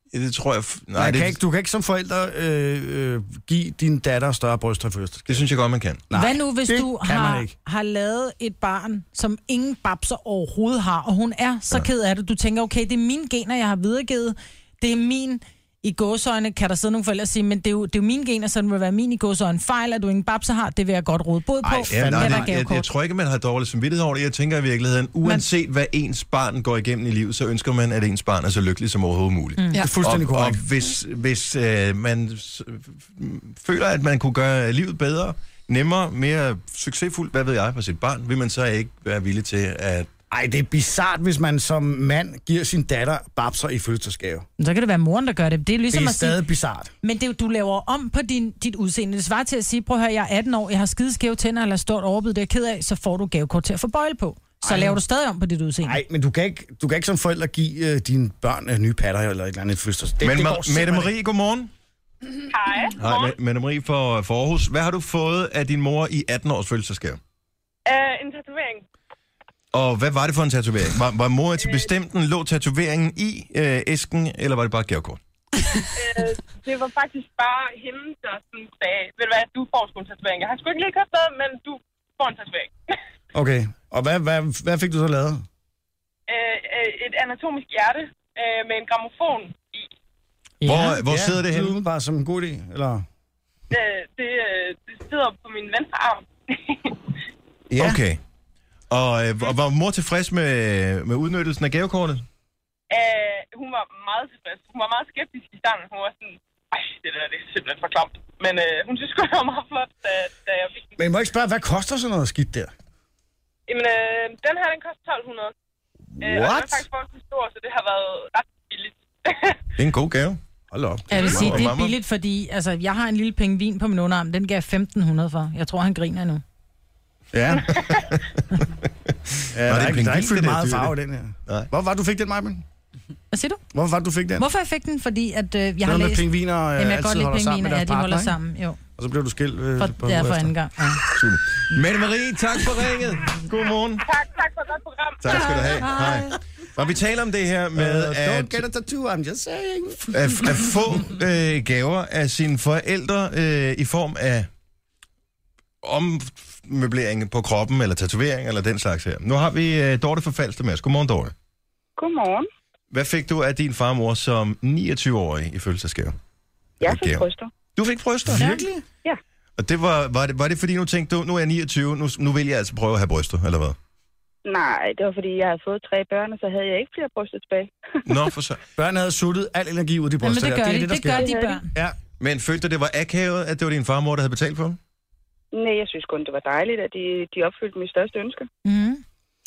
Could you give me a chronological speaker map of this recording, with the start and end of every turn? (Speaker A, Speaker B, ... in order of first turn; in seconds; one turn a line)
Speaker A: 0.1-1.4
Speaker B: 0.9-5.4
Speaker A: 5.3-6.0
Speaker B: 6.1-7.5
Speaker C: 6.1-22.9
Speaker B: 21.6-22.5
Speaker A: 21.9-40.1
Speaker B: 29.8-30.6
Speaker B: 40.3-44.5
Speaker C: 44.6-46.4
Speaker B: 45.9-46.9
Speaker C: 47.0-56.0
Speaker B: 54.6-55.0
Speaker B: 55.8-61.1
Speaker A: 60.2-61.7
Speaker D: 62.5-63.4
Speaker A: 62.9-67.2
Speaker D: 67.8-68.8
Speaker A: 69.7-75.2
Speaker D: 71.6-71.9
Speaker D: 75.9-82.7
Speaker B: 83.3-85.4
Speaker D: 86.3-89.8
Speaker C: 90.6-91.0
Speaker A: 90.6-91.7
Speaker B: 91.0-93.0
Speaker D: 93.7-96.9
Speaker B: 97.7-98.0
Speaker A: 97.8-98.2
Speaker A: 98.9-102.2
Speaker D: 102.9-111.0
Speaker B: 111.0-112.7
Speaker D: 113.7-115.5
Speaker D: 116.2-119.6
Speaker B: 116.2-116.8
Speaker A: 119.8-120.4
Speaker B: 120.7-121.7
Speaker C: 121.1-126.4
Speaker A: 121.1-122.0
Speaker B: 127.3-127.7
Speaker A: 127.7-130.9
Speaker B: 129.5-132.6
Speaker C: 133.3-133.6
Speaker B: 133.7-134.4
Speaker C: 134.3-138.8
Speaker B: 135.8-138.4
Speaker B: 139.0-140.5
Speaker C: 139.8-141.0
Speaker A: 141.0-144.0
Speaker D: 144.0-145.9
Speaker A: 145.2-148.6
Speaker C: 145.4-146.3
Speaker B: 147.7-150.1
Speaker A: 150.1-154.5
Speaker A: 155.8-161.3
Speaker E: 162.0-162.4
Speaker A: 162.9-166.1
Speaker E: 166.8-167.5
Speaker A: 166.8-168.6
Speaker C: 168.3-168.7
Speaker B: 168.3-168.8
Speaker A: 169.6-173.8
Speaker E: 174.4-177.7
Speaker A: 178.1-178.6
Speaker B: 178.8-182.0
Speaker C: 180.2-181.7
Speaker E: 181.2-181.6
Speaker A: 182.2-184.8
Speaker E: 185.5-188.5
Speaker C: 188.6-189.0